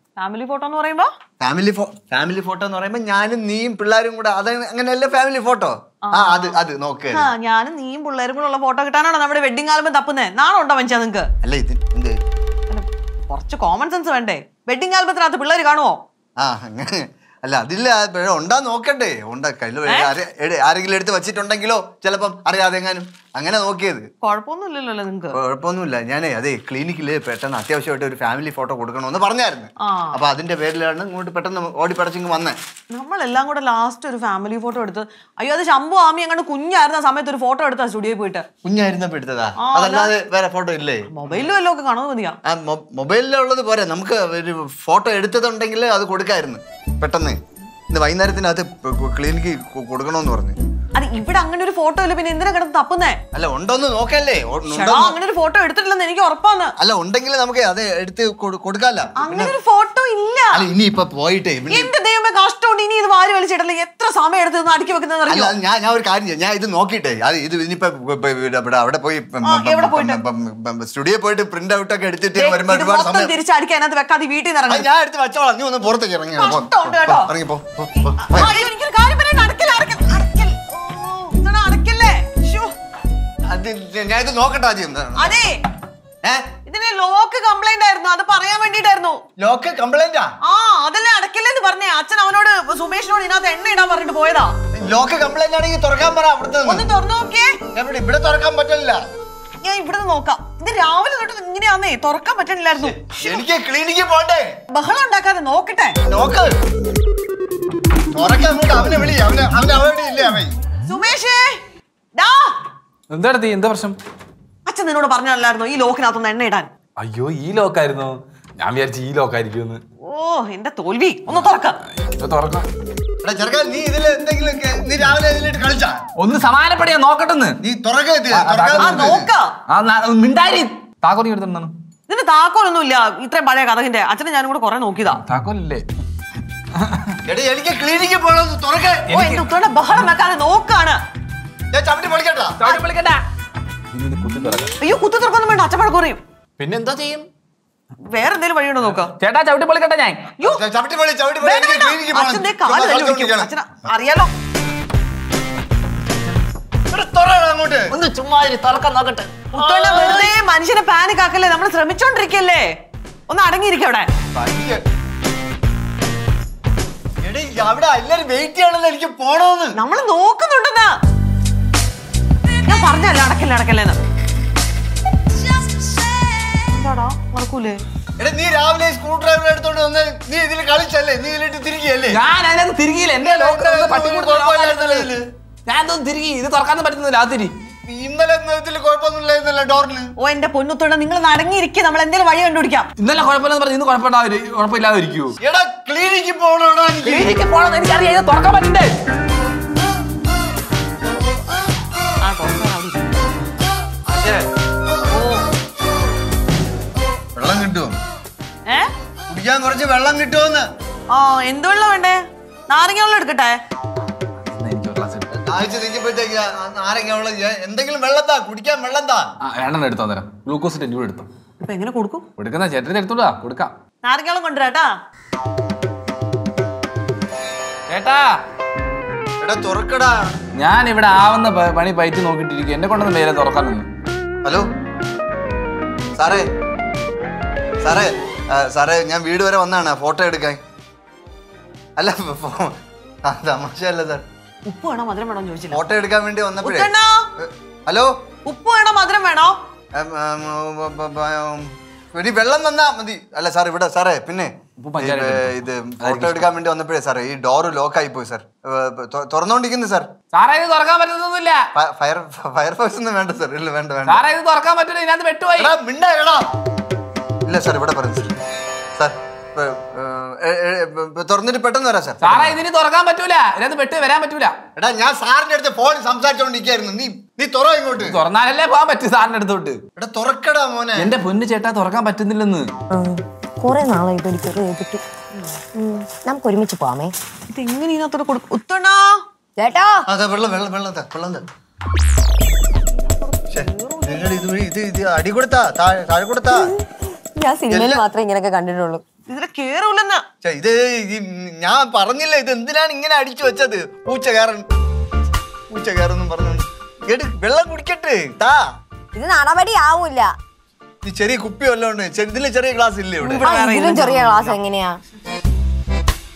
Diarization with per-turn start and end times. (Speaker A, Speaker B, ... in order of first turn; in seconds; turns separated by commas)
Speaker A: 0.2-1.1, Speaker B: 1.4-7.3, Speaker A: 6.0-6.5, Speaker A: 7.1-11.3, Speaker B: 11.4-12.2, Speaker A: 12.7-16.0, Speaker B: 16.4-24.1, Speaker A: 19.9-20.1, Speaker A: 24.2-25.4, Speaker B: 25.3-32.6, Speaker A: 29.8-30.2, Speaker A: 32.9-38.5, Speaker B: 38.6-41.4, Speaker A: 39.6-40.1, Speaker A: 41.1-42.4, Speaker B: 42.5-47.4, Speaker B: 47.9-50.6, Speaker A: 51.0-53.2, Speaker B: 53.3-55.2, Speaker A: 54.7-56.7, Speaker B: 56.8-59.5, Speaker A: 59.2-60.7, Speaker B: 60.5-61.9, Speaker A: 61.7-65.5, Speaker B: 65.3-73.3, Speaker A: 69.4-70.2, Speaker A: 72.4-74.9, Speaker B: 74.7-78.6, Speaker A: 76.4-77.3, Speaker A: 78.2-82.7, Speaker B: 83.5-85.4, Speaker A: 85.2-85.6, Speaker A: 86.7-89.2, Speaker B: 89.4-90.3, Speaker A: 90.4-94.5, Speaker B: 94.8-96.9, Speaker A: 96.7-97.6, Speaker B: 97.7-99.0, Speaker A: 99.6-103.3, Speaker B: 102.8-104.5, Speaker A: 104.7-106.0, Speaker B: 106.1-106.5, Speaker B: 108.1-110.5, Speaker A: 110.8-111.6, Speaker A: 112.2-112.6, Speaker C: 113.1-114.0, Speaker A: 114.7-116.7, Speaker C: 117.0-119.8, Speaker A: 120.0-121.8, Speaker C: 121.9-122.7, Speaker B: 123.2-126.0, Speaker C: 126.2-127.6, Speaker B: 127.6-129.3, Speaker C: 128.3-129.1, Speaker A: 128.8-129.5, Speaker C: 129.7-131.7, Speaker A: 132.1-135.2, Speaker C: 135.3-135.8, Speaker C: 136.8-137.2, Speaker B: 137.3-139.1, Speaker C: 139.1-139.4, Speaker A: 139.1-141.0, Speaker B: 141.7-142.7, Speaker C: 142.6-143.2, Speaker C: 143.9-144.7, Speaker A: 144.8-146.2, Speaker C: 146.6-147.3, Speaker A: 148.1-149.1, Speaker C: 149.2-150.3, Speaker B: 150.5-153.5, Speaker A: 151.4-154.3, Speaker B: 156.9-157.9, Speaker C: 157.9-160.3, Speaker A: 159.5-162.7, Speaker A: 163.3-164.1, Speaker B: 164.3-164.8, Speaker B: 167.2-169.8, Speaker A: 169.7-170.9, Speaker A: 172.7-174.0, Speaker A: 176.6-177.8, Speaker B: 178.2-182.2, Speaker C: 182.1-185.1, Speaker B: 183.2-185.2, Speaker C: 185.7-187.5, Speaker B: 187.9-190.1, Speaker A: 190.2-192.9, Speaker C: 193.0-195.4, Speaker B: 195.4-197.4, Speaker C: 197.0-198.9, Speaker A: 202.2-203.2, Speaker B: 204.1-204.4, Speaker A: 205.1-205.4, Speaker B: 207.3-208.0, Speaker B: 209.3-210.7, Speaker A: 211.1-213.6, Speaker C: 214.5-215.3, Speaker B: 215.4-219.3, Speaker C: 219.4-221.3, Speaker A: 221.6-222.2, Speaker C: 222.4-223.7, Speaker A: 224.0-224.9, Speaker C: 227.9-228.4, Speaker B: 229.4-230.3, Speaker C: 230.6-233.9, Speaker B: 236.2-236.5, Speaker B: 237.8-240.6, Speaker B: 242.0-242.7, Speaker B: 243.3-244.2, Speaker A: 244.7-245.8, Speaker B: 245.7-248.1, Speaker A: 246.6-247.3, Speaker A: 248.5-249.6, Speaker B: 249.9-260.1, Speaker C: 254.8-256.5, Speaker C: 260.3-261.6, Speaker B: 261.8-264.2, Speaker C: 264.1-265.7, Speaker B: 265.6-266.5, Speaker B: 267.5-268.4, Speaker B: 269.0-272.6, Speaker C: 272.2-274.6, Speaker B: 274.8-278.2, Speaker C: 278.0-279.8, Speaker B: 280.0-281.1, Speaker C: 281.0-282.7, Speaker D: 282.9-285.0, Speaker D: 285.8-287.1, Speaker A: 287.5-289.2, Speaker D: 289.6-290.1, Speaker B: 290.1-291.4, Speaker A: 293.0-294.3, Speaker B: 293.5-296.7, Speaker D: 296.6-299.0, Speaker B: 297.7-298.0, Speaker A: 299.3-300.2, Speaker B: 300.4-304.6, Speaker B: 305.7-308.6, Speaker D: 309.1-310.4, Speaker B: 311.0-313.5, Speaker A: 313.2-314.6, Speaker D: 313.4-315.0